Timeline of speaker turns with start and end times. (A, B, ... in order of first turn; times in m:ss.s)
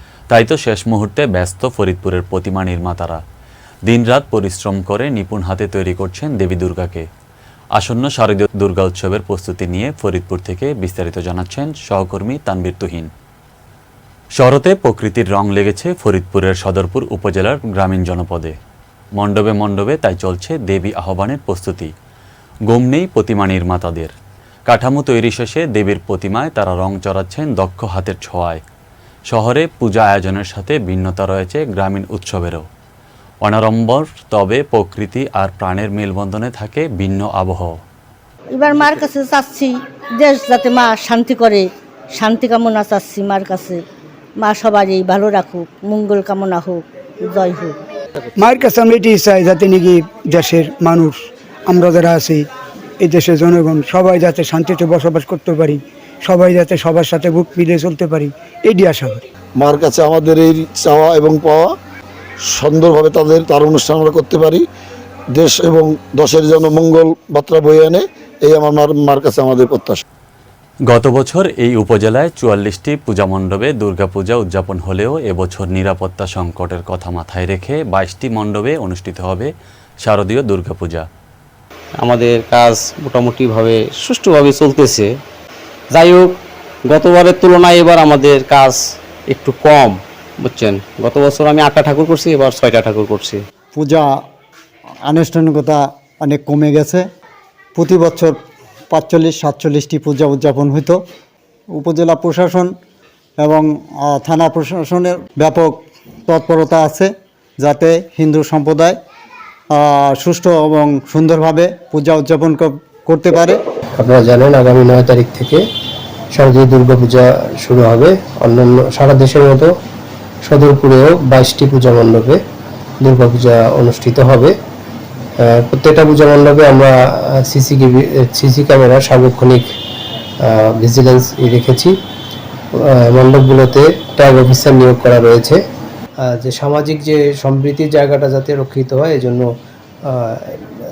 0:00.3-0:03.2 A
0:03.8-0:07.0 A
0:07.7-0:13.1 A
0:14.4-0:18.6 A
0:19.1-0:21.9 A
0:22.7-0:24.1 A
0:24.7-0:28.6 A
0:29.3-0:32.7 A
0:33.4-0:37.8 A
0:38.5-0:43.8 B
0:44.4-0:47.8 B
0:48.4-0:52.4 C
0:53.0-0:59.2 C
0:59.6-1:01.6 D
1:02.5-1:04.6 D
1:05.3-1:10.0 D
1:10.9-1:19.5 A
1:20.0-1:21.0 A
1:22.0-1:25.1 E
1:25.9-1:33.4 E
1:33.7-1:34.1 F
1:35.0-1:37.0 F
1:37.7-1:38.4 F
1:38.9-1:41.0 F
1:41.7-1:42.7 F
1:43.4-1:49.0 F
1:49.7-1:53.6 F
1:54.0-1:55.6 G
1:56.3-1:59.7 G
2:00.4-2:02.4 G
2:03.0-2:04.5 G
2:05.4-2:09.6 G
2:10.5-2:11.9 G
2:13.1-2:15.6 G
2:16.2-2:19.4 G